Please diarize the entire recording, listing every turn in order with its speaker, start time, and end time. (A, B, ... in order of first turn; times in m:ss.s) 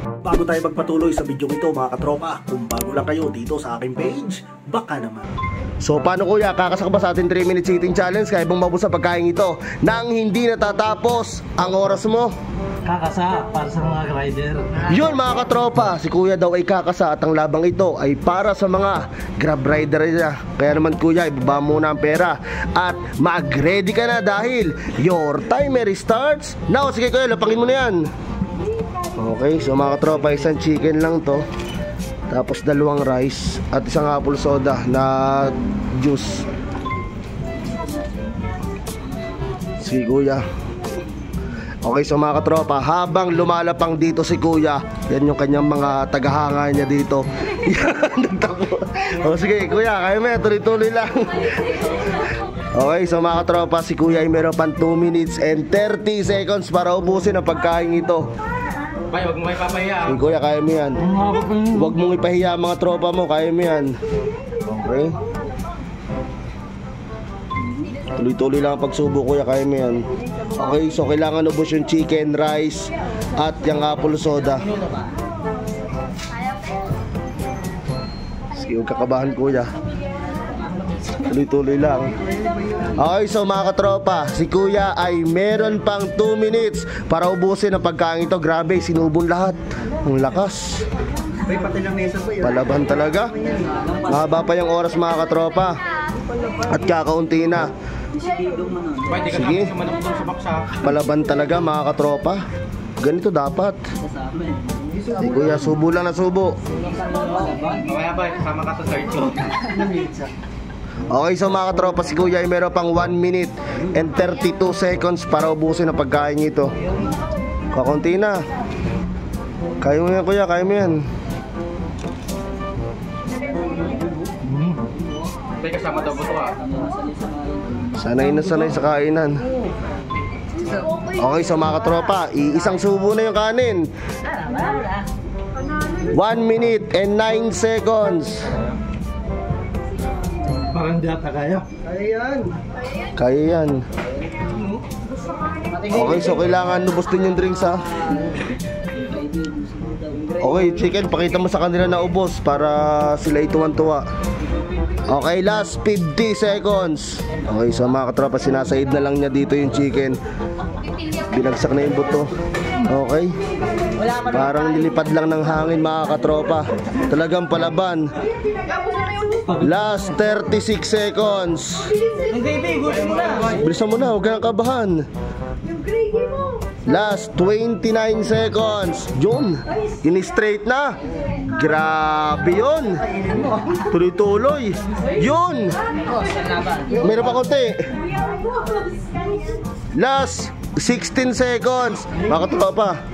0:00.2-0:05.3 A
0:05.8-0:12.3 B
0:12.8-0:14.9 C
0:14.8-0:28.0 B
0:29.2-0:31.4 B
0:32.3-0:36.5 B
0:39.8-0:40.4 B
0:41.8-0:58.3 B
0:59.1-1:00.2 D
1:00.0-1:01.1 B
1:01.0-1:02.0 C
1:01.7-1:03.9 B
1:04.6-1:05.2 B
1:08.1-1:10.0 B
1:10.6-1:14.7 B
1:18.6-1:19.7 B
1:21.2-1:22.1 B
1:23.0-1:30.8 B
1:31.9-1:32.3 A
1:32.3-1:33.3 B
1:34.1-1:35.8 B
1:36.7-1:37.7 B
1:38.2-1:38.9 A
1:38.9-1:40.8 D
1:39.3-1:39.8 B
1:40.8-1:42.4 B
1:43.0-1:43.8 B
1:45.1-1:46.6 B
1:47.6-1:49.9 D
1:51.1-1:56.7 B
1:57.7-1:58.4 B
1:59.8-2:01.0 B
2:04.4-2:04.8 C
2:05.6-2:06.8 D
2:07.9-2:09.4 B
2:11.2-2:13.9 B
2:16.1-2:18.5 B
2:20.5-2:21.7 C
2:22.1-2:22.4 A
2:23.1-2:23.8 B
2:25.8-2:27.9 B
2:30.4-2:34.0 B
2:35.1-2:40.2 B
2:41.2-2:42.3 B
2:42.9-2:43.3 B
2:44.1-2:48.1 B
2:49.3-2:49.7 C
2:49.5-2:52.0 B
2:52.3-2:53.5 D
2:53.4-2:55.0 B
2:56.9-3:01.0 B
3:01.5-3:03.1 B
3:03.7-3:05.8 B
3:06.9-3:07.8 B
3:10.0-3:13.0 B